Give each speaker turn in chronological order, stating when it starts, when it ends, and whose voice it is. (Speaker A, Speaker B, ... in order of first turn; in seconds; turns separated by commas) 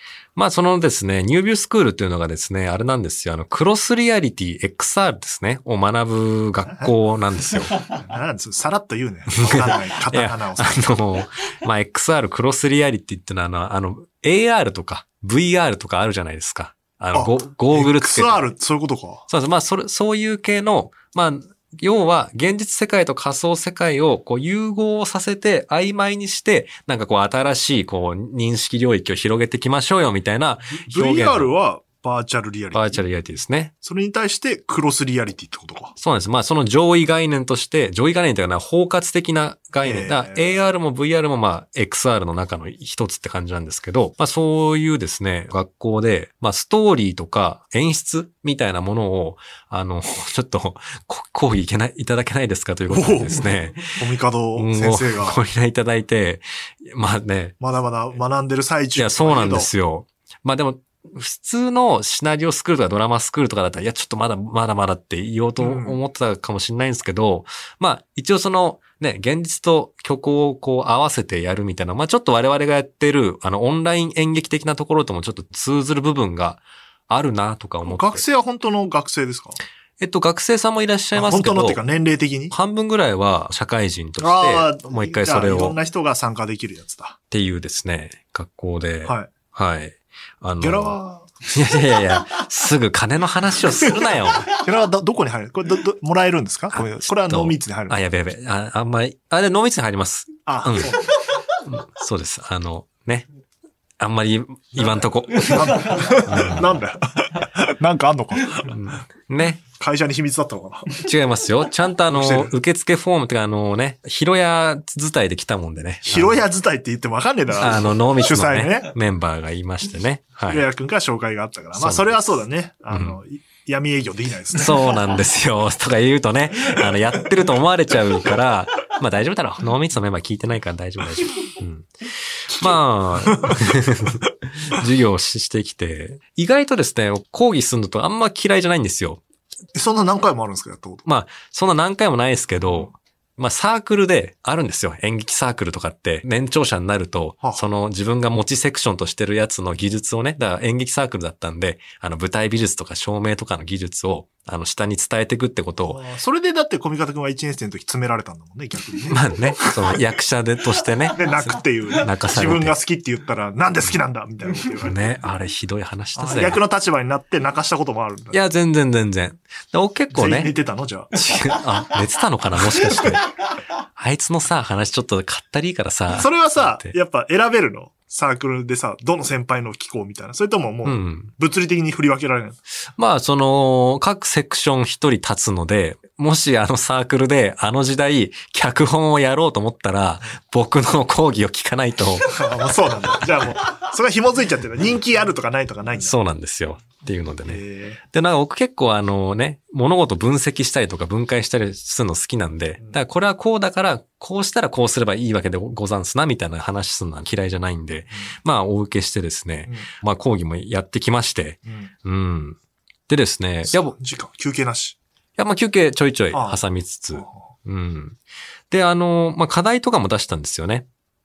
Speaker A: 0.4-7.8, Speaker B: 6.7-6.9, Speaker B: 7.8-10.9, Speaker A: 9.3-18.4, Speaker B: 17.1-19.3, Speaker A: 19.3-31.5, Speaker B: 30.8-33.0, Speaker A: 32.7-33.7, Speaker B: 33.8-35.9, Speaker A: 36.0-54.0, Speaker B: 39.8-40.6, Speaker B: 52.9-55.4, Speaker A: 54.6-57.6, Speaker B: 57.6-59.7, Speaker A: 59.0-78.2, Speaker B: 65.6-66.0, Speaker B: 77.8-79.6, Speaker A: 80.0-81.8, Speaker B: 81.2-82.5, Speaker A: 82.5-85.8, Speaker B: 84.2-87.2, Speaker A: 87.3-94.5, Speaker B: 90.6-91.3, Speaker B: 93.8-98.0, Speaker A: 96.7-101.0, Speaker B: 100.5-101.2, Speaker A: 101.6-103.3, Speaker A: 104.0-106.7, Speaker B: 104.8-108.7, Speaker A: 108.7-109.6, Speaker B: 109.7-111.1, Speaker A: 111.0-116.5, Speaker B: 112.1-112.6, Speaker B: 116.0-118.9, Speaker A: 117.6-120.7, Speaker B: 120.5-125.0, Speaker A: 121.8-122.3, Speaker A: 122.9-123.2, Speaker A: 124.5-139.2, Speaker B: 133.3-133.6, Speaker B: 139.7-141.0, Speaker A: 141.1-156.0, Speaker B: 155.8-160.0, Speaker A: 159.1-162.8, Speaker B: 161.1-165.0, Speaker A: 164.8-166.6, Speaker B: 166.2-168.4, Speaker A: 168.3-170.5, Speaker B: 170.1-171.1, Speaker A: 171.1-173.3, Speaker B: 172.7-173.2, Speaker A: 174.0-176.9, Speaker B: 176.1-182.6, Speaker A: 180.8-181.3, Speaker A: 183.0-192.4, Speaker B: 192.2-196.2, Speaker A: 196.0-213.9, Speaker B: 197.5-198.0, Speaker B: 211.7-211.9, Speaker B: 213.7-215.0, Speaker A: 215.4-218.2, Speaker B: 216.3-216.6, Speaker A: 218.7-220.9